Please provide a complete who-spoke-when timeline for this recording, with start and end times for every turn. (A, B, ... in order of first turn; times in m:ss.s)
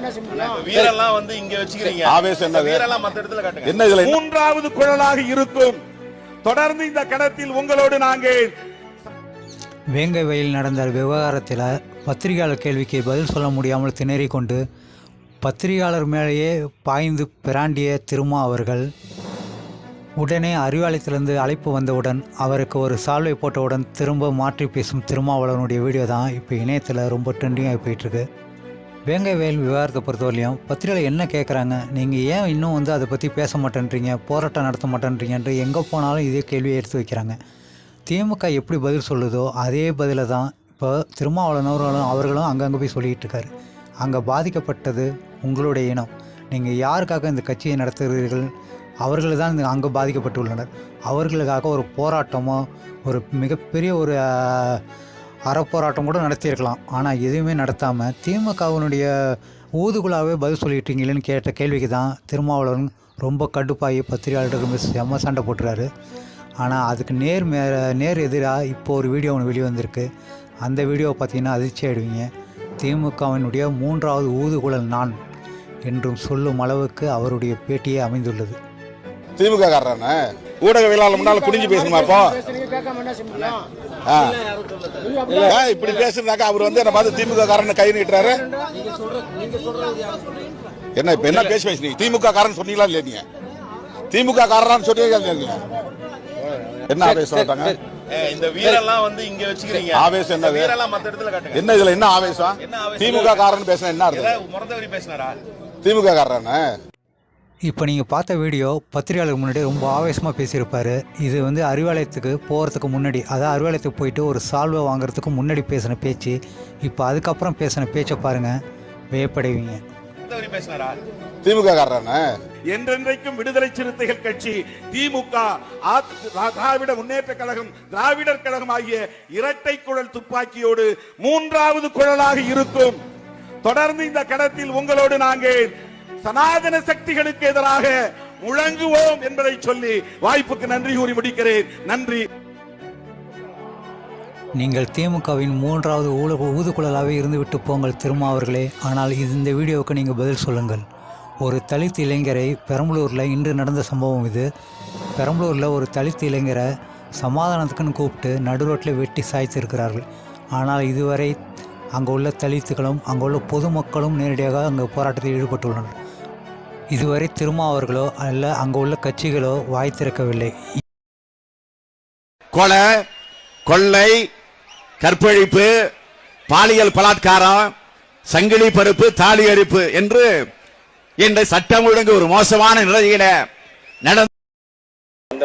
0:00.3-0:03.7 A
0:01.9-0:02.8 B
0:03.6-0:04.2 B
0:04.2-0:05.8 C
0:06.4-0:08.5 C
0:10.0-0:14.6 D
0:15.4-0:18.9 D
0:20.2-0:28.2 D
0:29.1-0:37.4 D
0:38.1-0:43.5 D
0:44.0-0:48.5 D
0:49.0-0:54.8 D
0:55.5-1:05.9 D
1:06.6-1:10.1 D
1:10.6-1:12.3 D
1:12.8-1:15.1 D
1:15.8-1:18.6 D
1:19.4-1:22.4 B
1:24.1-1:24.4 B
1:25.3-1:28.4 B
1:31.0-1:33.2 B
1:34.1-1:35.6 B
1:36.9-1:37.8 B
1:38.1-1:41.6 A
1:39.8-1:40.7 B
1:41.5-1:44.4 B
1:42.6-1:43.4 A
1:44.1-1:45.4 A
1:45.8-1:46.6 B
1:47.7-1:58.6 D
1:59.1-1:59.8 D
2:00.3-2:01.0 A
2:01.4-2:02.2 B
2:02.7-2:13.0 C
2:13.6-2:15.7 C
2:16.2-2:22.2 C
2:24.6-2:30.8 D
2:31.4-2:34.5 D
2:35.2-2:36.6 D
2:37.2-2:40.0 D
2:40.6-2:41.3 D
2:42.0-2:45.9 D
2:46.9-2:50.6 D
2:52.5-2:53.0 E
2:53.6-2:54.3 E
2:55.0-2:55.7 E
2:56.5-2:57.7 E
2:58.3-3:00.4 E
3:01.2-3:03.4 E
3:04.0-3:04.3 E